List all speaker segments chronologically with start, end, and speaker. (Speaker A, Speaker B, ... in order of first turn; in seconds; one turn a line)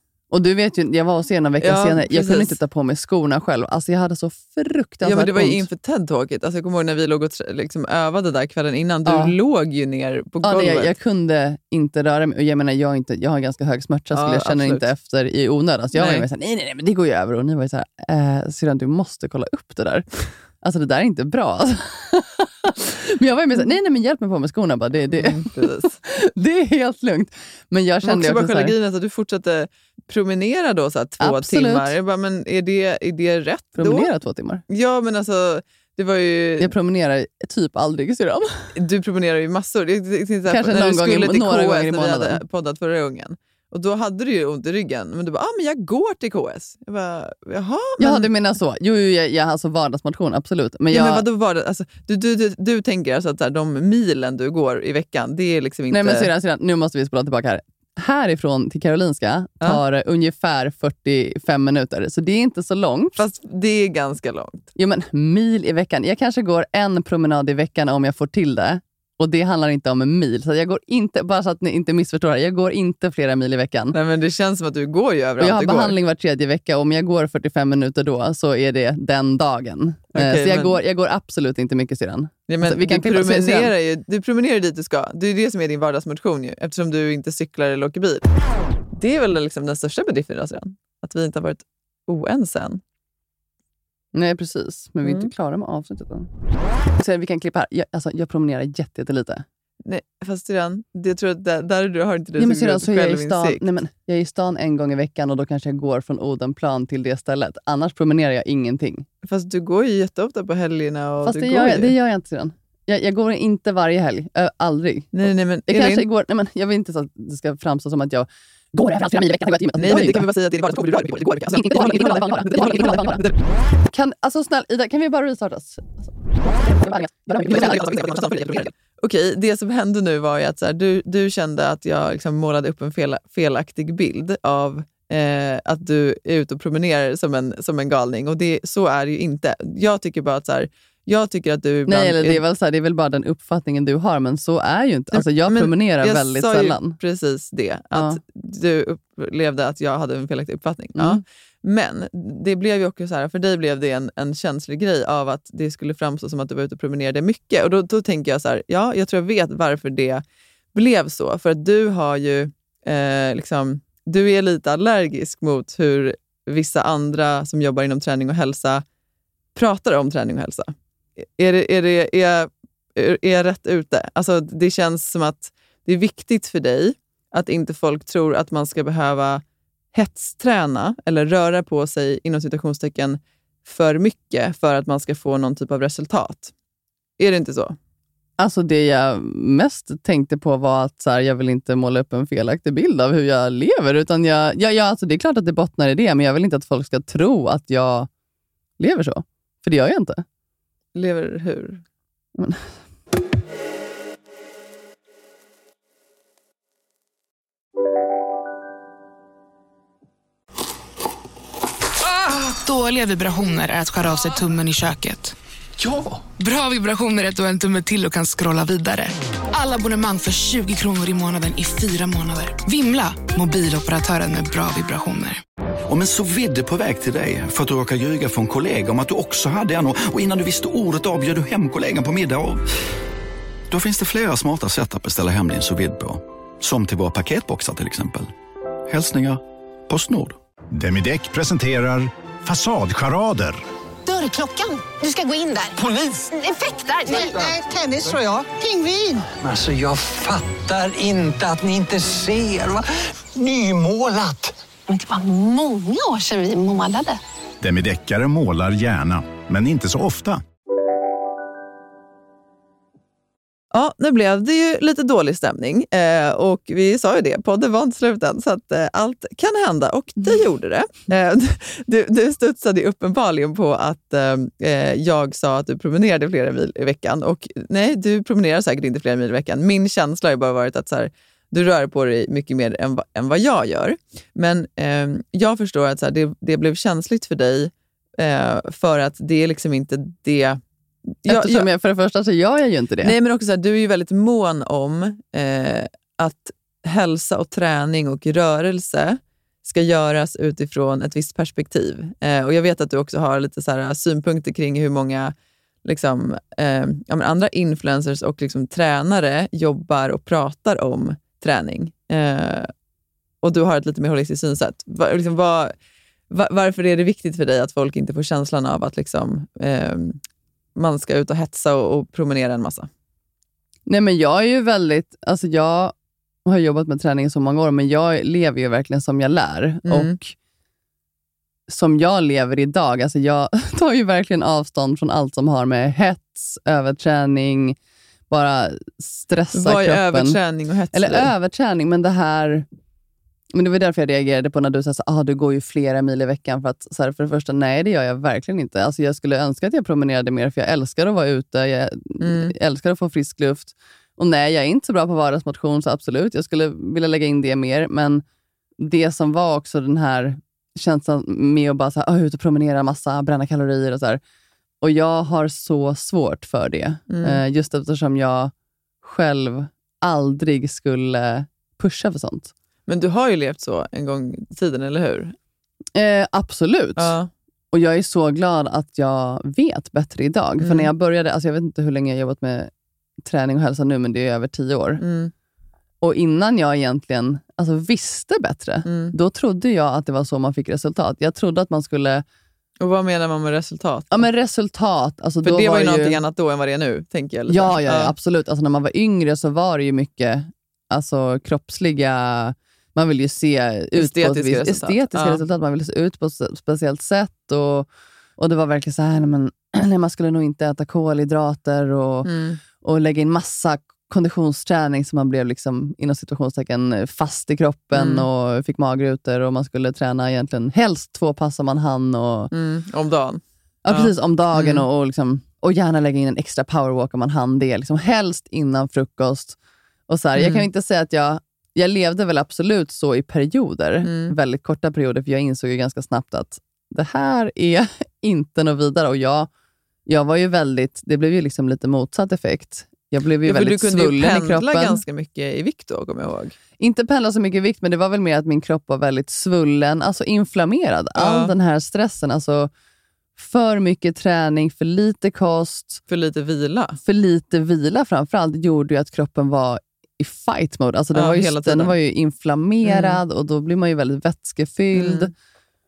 Speaker A: 0.3-5.7
Speaker B: 1.6-2.6
Speaker B: 5.0-10.9
Speaker A: 9.1-9.3
Speaker A: 10.4-20.1
Speaker B: 14.1-14.9
Speaker B: 15.9-16.3
Speaker A: 20.6-28.8
Speaker B: 25.1-26.0
Speaker B: 28.0-34.1
Speaker A: 31.2-32.0
Speaker A: 33.8-34.6
Speaker B: 34.7-36.7
Speaker A: 36.6-38.7
Speaker B: 38.8-48.3
Speaker A: 40.5-42.4
Speaker A: 48.0-51.2
Speaker B: 50.9-56.3
Speaker A: 55.9-63.2
Speaker B: 63.2-64.7
Speaker A: 64.8-74.0
Speaker B: 73.9-76.0
Speaker A: 75.4-83.7
Speaker B: 80.1-80.8
Speaker B: 82.5-88.3
Speaker B: 88.9-92.8
Speaker A: 94.1-96.3
Speaker B: 95.0-95.3
Speaker A: 97.0-99.5
Speaker B: 99.8-103.6
Speaker A: 102.4-109.1
Speaker B: 109.2-111.9
Speaker A: 111.2-120.3
Speaker B: 115.1-116.1
Speaker B: 119.8-123.4
Speaker A: 121.5-123.2
Speaker A: 123.9-128.1
Speaker B: 127.5-142.4
Speaker A: 141.9-147.0
Speaker B: 145.1-160.2
Speaker A: 147.9-148.2
Speaker A: 151.0-151.2
Speaker B: 160.7-168.8
Speaker B: 169.6-179.4
Speaker B: 179.9-186.5
Speaker B: 187.2-187.8
Speaker A: 188.4-198.1
Speaker A: 198.8-200.2
Speaker B: 200.9-201.8
Speaker A: 202.4-202.6
Speaker C: 212.1-215.3
Speaker C: 216.4-225.4
Speaker D: 225.9-232.7
Speaker D: 233.7-238.3
Speaker D: 238.9-240.4
Speaker E: 240.7-243.6
Speaker F: 244.1-249.3
Speaker G: 249.4-252.8
Speaker G: 253.3-254.5
Speaker F: 254.9-257.2
Speaker E: 257.6-260.4
Speaker B: 263.7-290.6
Speaker B: 291.1-291.7
Speaker A: 291.3-293.1
Speaker B: 293.0-305.3
Speaker B: 305.9-312.7
Speaker B: 313.4-315.7
Speaker B: 316.3-320.2
Speaker B: 320.8-322.9
Speaker A: 323.9-330.4
Speaker B: 329.9-330.2
Speaker A: 331.7-337.8
Speaker A: 338.3-340.4
Speaker B: 339.5-341.3
Speaker A: 340.9-342.7
Speaker A: 343.5-358.2
Speaker B: 352.2-352.5
Speaker A: 358.8-364.2
Speaker A: 364.8-372.5
Speaker B: 367.1-367.4
Speaker B: 372.9-375.4
Speaker A: 375.9-377.1
Speaker B: 377.0-377.3
Speaker A: 377.7-382.7
Speaker B: 380.6-380.9
Speaker A: 383.2-385.0
Speaker B: 385.0-385.3
Speaker A: 386.0-392.2
Speaker B: 388.9-389.1
Speaker B: 392.8-394.3
Speaker A: 394.1-396.2
Speaker B: 395.4-398.1
Speaker A: 397.5-412.3
Speaker B: 404.0-405.4
Speaker B: 412.2-412.6
Speaker A: 412.8-422.5
Speaker B: 417.9-418.3
Speaker B: 422.5-424.9
Speaker A: 423.9-439.5
Speaker B: 430.4-430.6
Speaker B: 434.0-434.3
Speaker A: 440.1-445.0
Speaker B: 443.4-446.6
Speaker A: 446.8-452.7
Speaker B: 451.2-451.5
Speaker A: 453.4-456.0
Speaker B: 456.1-457.0
Speaker A: 457.0-465.3
Speaker B: 461.1-462.0
Speaker B: 462.8-463.2
Speaker B: 464.9-465.3